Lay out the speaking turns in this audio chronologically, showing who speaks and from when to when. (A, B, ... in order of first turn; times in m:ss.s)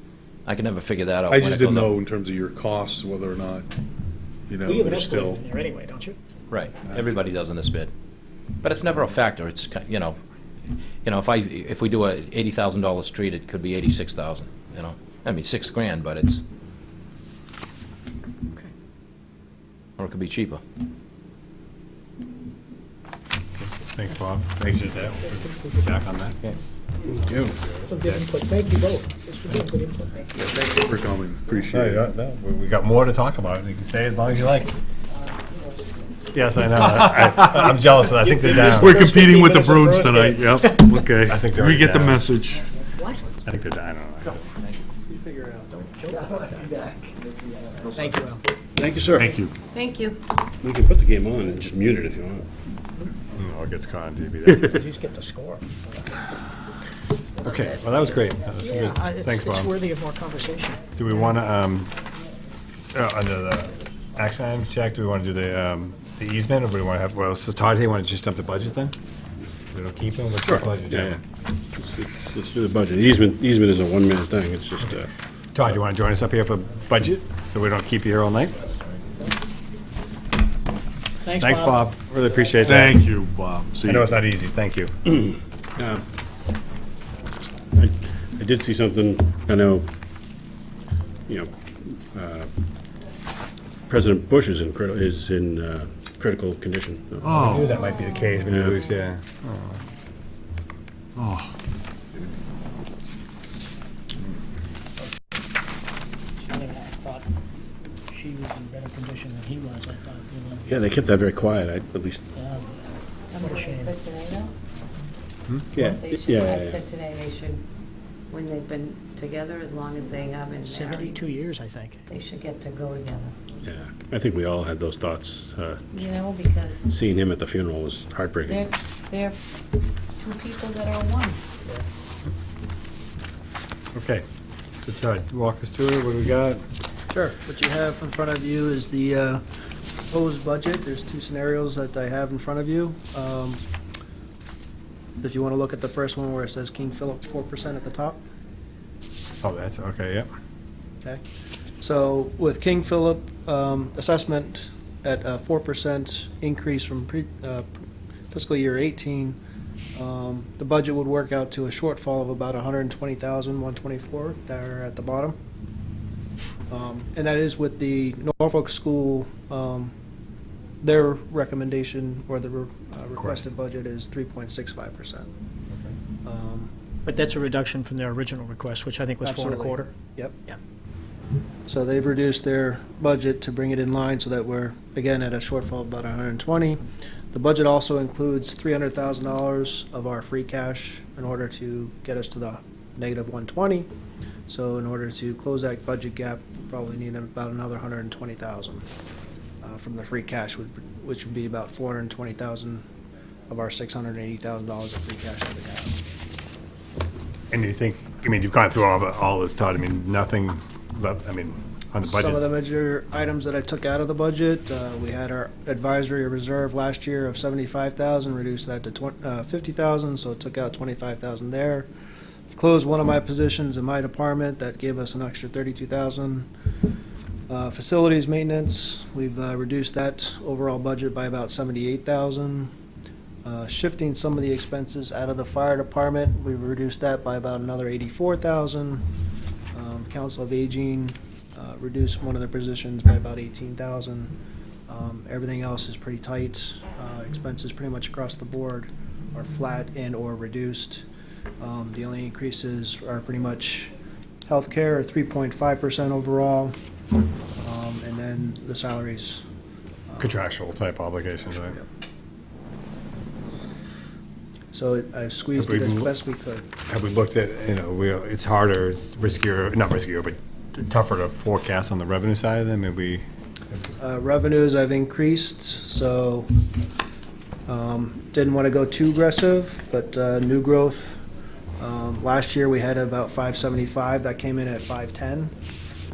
0:00.4-0:01.9 A
0:01.3-0:03.7 B
0:04.5-0:05.4 B
0:04.6-0:06.2 C
0:06.5-0:07.9 A
0:08.6-0:10.2 A
0:11.0-0:16.4 A
0:20.0-0:20.6 A
0:23.6-0:26.4 D
0:25.3-0:25.9 C
0:27.1-0:27.6 E
0:27.6-0:28.2 D
0:27.9-0:30.3 C
0:30.4-0:32.0 B
0:31.7-0:34.7 D
0:36.3-0:39.1 D
0:38.4-0:40.9 C
0:38.5-0:42.7 B
0:41.2-0:42.2 D
0:43.4-0:44.4 D
0:45.1-0:45.9 F
0:45.9-0:46.8 C
0:47.9-0:48.4 C
0:48.0-0:48.4 F
0:48.8-0:49.4 E
0:49.1-0:49.6 B
0:49.8-0:50.2 G
0:50.6-0:52.5 E
0:53.3-0:54.8 D
0:54.8-0:56.1 C
0:57.4-0:59.7 D
0:58.6-1:00.8 C
1:01.0-1:01.9 D
1:02.9-1:09.0 D
1:09.7-1:11.2 D
1:10.4-1:11.2 E
1:11.7-1:15.1 E
1:15.6-1:18.6 D
1:21.2-1:21.8 C
1:21.4-1:23.0 D
1:22.6-1:24.1 B
1:23.8-1:24.9 D
1:25.8-1:26.0 E
1:27.7-1:29.9 E
1:31.3-1:32.5 E
1:33.9-1:37.7 E
1:37.2-1:37.6 B
1:37.3-1:39.8 D
1:38.5-1:38.8 E
1:41.2-1:41.5 B
1:46.4-1:47.3 C
1:48.1-1:50.7 C
1:50.6-1:52.2 E
1:52.4-1:52.7 C
1:53.3-1:54.5 G
1:53.4-1:53.9 C
1:55.7-1:56.9 E
1:55.9-1:57.6 G
1:58.3-2:01.2 G
2:00.6-2:02.0 C
2:02.1-2:03.3 G
2:03.6-2:06.3 E
2:05.9-2:06.9 G
2:06.9-2:08.7 E
2:08.5-2:09.4 G
2:10.2-2:11.4 G
2:13.9-2:14.2 D
2:14.8-2:16.6 D
2:17.1-2:19.4 F
2:20.1-2:23.6 F
2:25.2-2:28.2 F
2:29.4-2:30.3 D
2:31.8-2:39.4 F
2:40.0-2:45.4 F
2:46.7-2:49.9 F
2:50.8-2:55.3 F
2:53.2-2:53.4 D
2:56.2-2:56.7 F
2:57.1-3:00.6 C
2:59.2-3:00.4 F
3:01.7-3:06.8 F
3:07.3-3:13.9 F
3:14.5-3:18.9 F
3:19.6-3:22.8 F
3:23.5-3:26.0 F
3:27.5-3:32.5 D
3:32.0-3:41.9 F
3:42.5-3:46.5 F
3:47.5-3:52.7 F
3:53.4-3:59.0 F
3:59.7-4:04.4 F
4:04.9-4:11.0 F
4:11.6-4:13.9 F
4:14.5-4:16.8 F
4:17.6-4:19.4 F
4:20.1-4:20.4 F
4:20.2-4:21.8 D
4:21.6-4:21.8 F
4:24.7-4:26.7 F
4:25.6-4:26.1 D
4:26.9-4:33.2 D
4:34.0-4:36.5 F
4:37.7-4:41.2 F
4:41.8-4:45.5 F